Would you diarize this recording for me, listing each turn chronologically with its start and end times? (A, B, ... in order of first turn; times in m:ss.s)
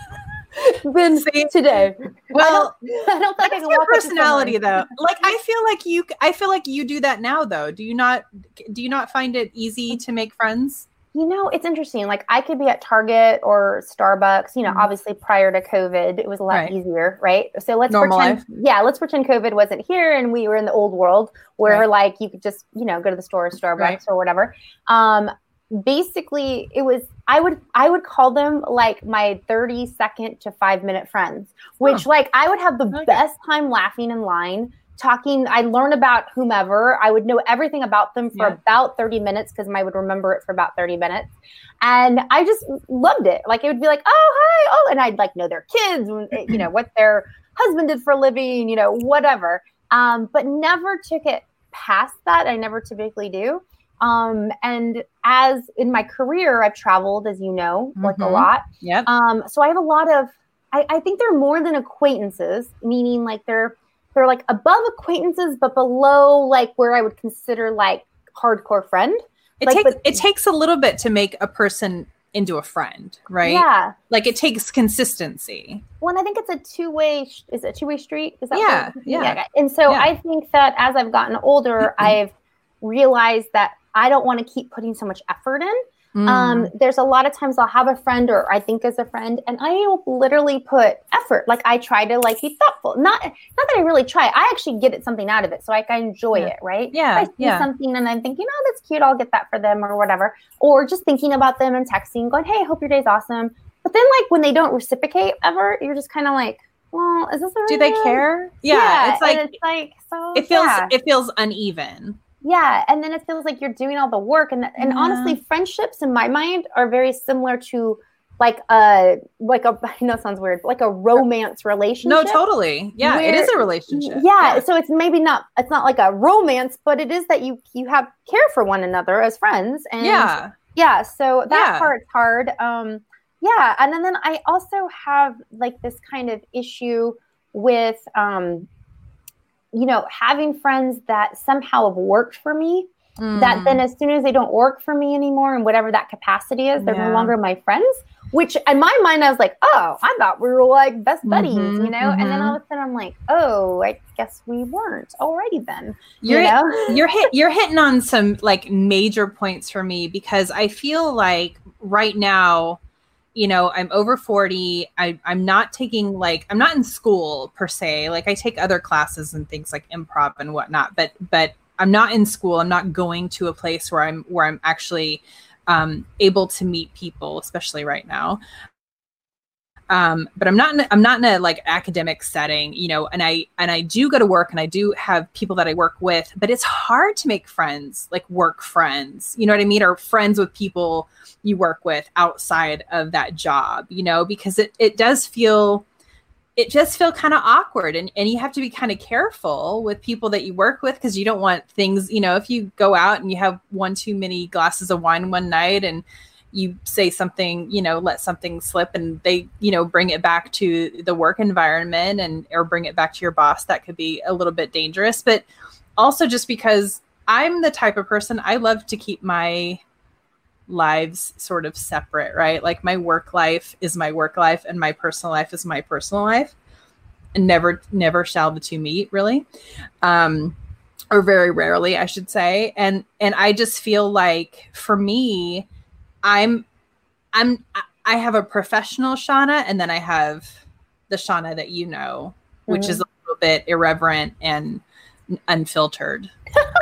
0:00.5-0:05.0 A
0:01.2-0:01.5 B
0:02.3-0:02.7 B
0:03.4-0:10.9 B
0:11.1-1:10.2 A
0:17.9-0:18.4 B
0:32.9-0:33.2 B
0:58.0-0:59.1 B
1:09.6-1:15.8 B
1:13.4-1:14.0 A
1:16.0-1:50.9 A
1:18.5-1:20.1 B
1:21.8-1:22.1 B
1:26.1-1:26.7 B
1:36.3-1:37.7 B
1:47.7-1:49.5 B
1:50.3-1:52.2 B
1:52.4-2:02.4 A
1:54.8-1:55.4 B
2:02.0-2:04.6 B
2:03.0-2:18.7 A
2:10.0-2:10.5 B
2:11.5-2:11.9 B
2:19.7-2:37.0 A
2:23.2-2:23.8 B
2:26.8-2:27.3 B
2:31.2-2:32.6 B
2:36.2-2:42.8 B
2:43.3-2:58.4 B
2:59.9-3:15.8 B
3:16.6-3:39.8 B
3:40.7-3:46.5 B
3:47.3-3:49.4 B
3:50.0-3:50.6 B
3:51.1-3:55.7 B
3:56.2-3:56.6 B
3:57.3-4:00.5 B
4:01.1-4:06.3 B
4:02.7-4:03.0 A